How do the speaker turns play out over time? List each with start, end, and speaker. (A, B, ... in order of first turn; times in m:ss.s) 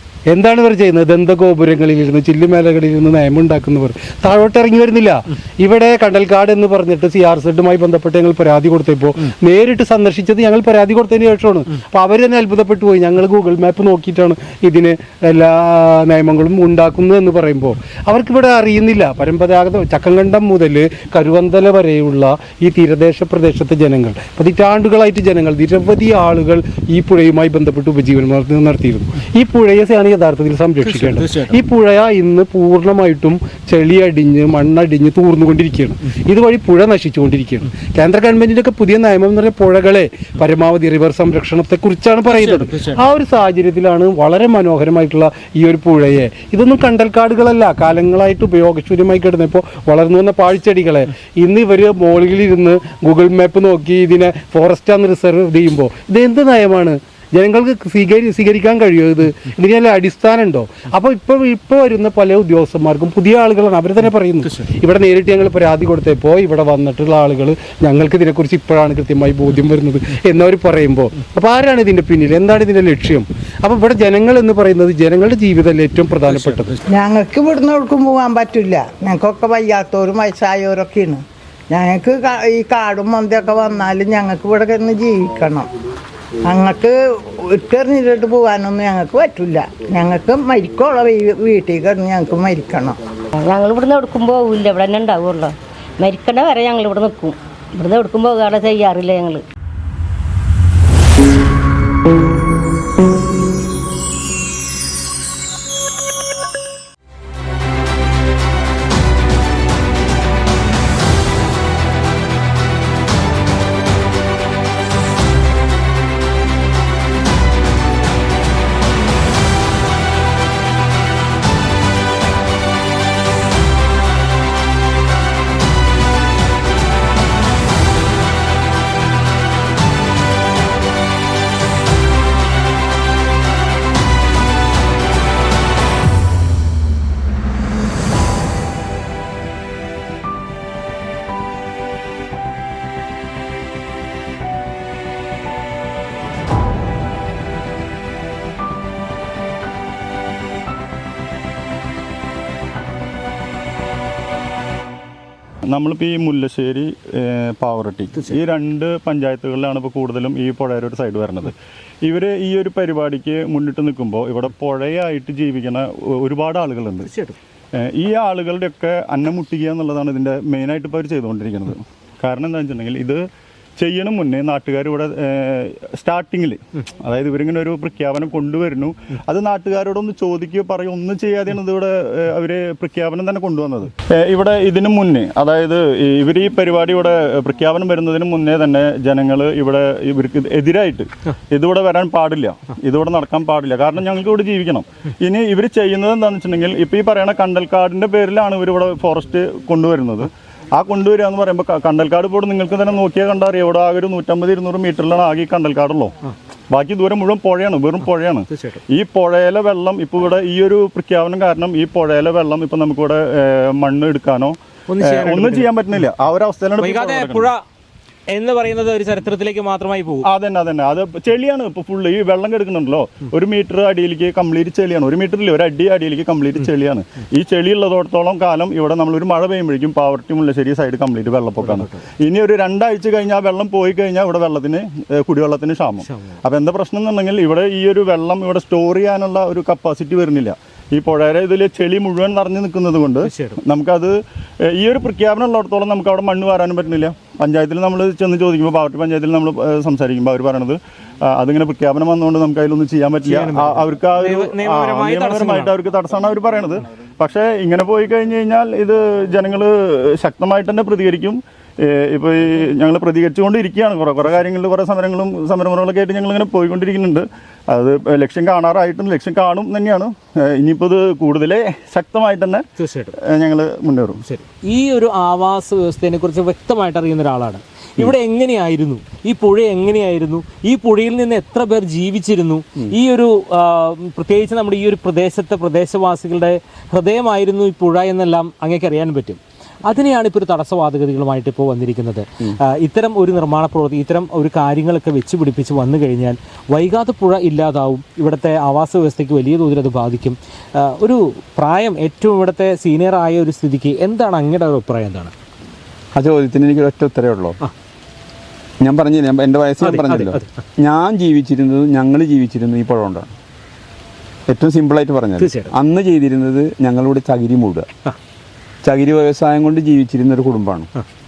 0:00.3-1:16.8 A
0:31.2-0:31.5 B
0:42.5-0:42.9 B
1:16.9-1:25.7 C
1:26.4-1:33.0 C
1:33.4-1:39.4 D
2:35.7-2:47.1 E
2:47.1-2:47.4 B
2:47.8-2:53.2 E
2:53.8-3:26.1 E
3:26.7-3:37.5 E
3:28.5-3:28.8 B
3:34.9-3:35.7 B
3:36.8-3:37.6 B
3:38.3-3:40.3 B
3:40.3-4:04.1 E
3:51.6-3:52.0 B
3:56.0-3:56.4 B
4:03.2-4:03.6 B
4:04.7-4:32.6 E
4:13.2-4:15.7 B
4:32.8-4:33.1 B
4:33.3-4:34.2 E
4:34.2-5:05.3 B
5:06.1-5:07.6 F
5:08.8-5:13.3 F
5:09.8-5:10.6 B
5:14.5-5:17.9 F
5:15.4-5:15.7 B
5:18.8-5:20.9 F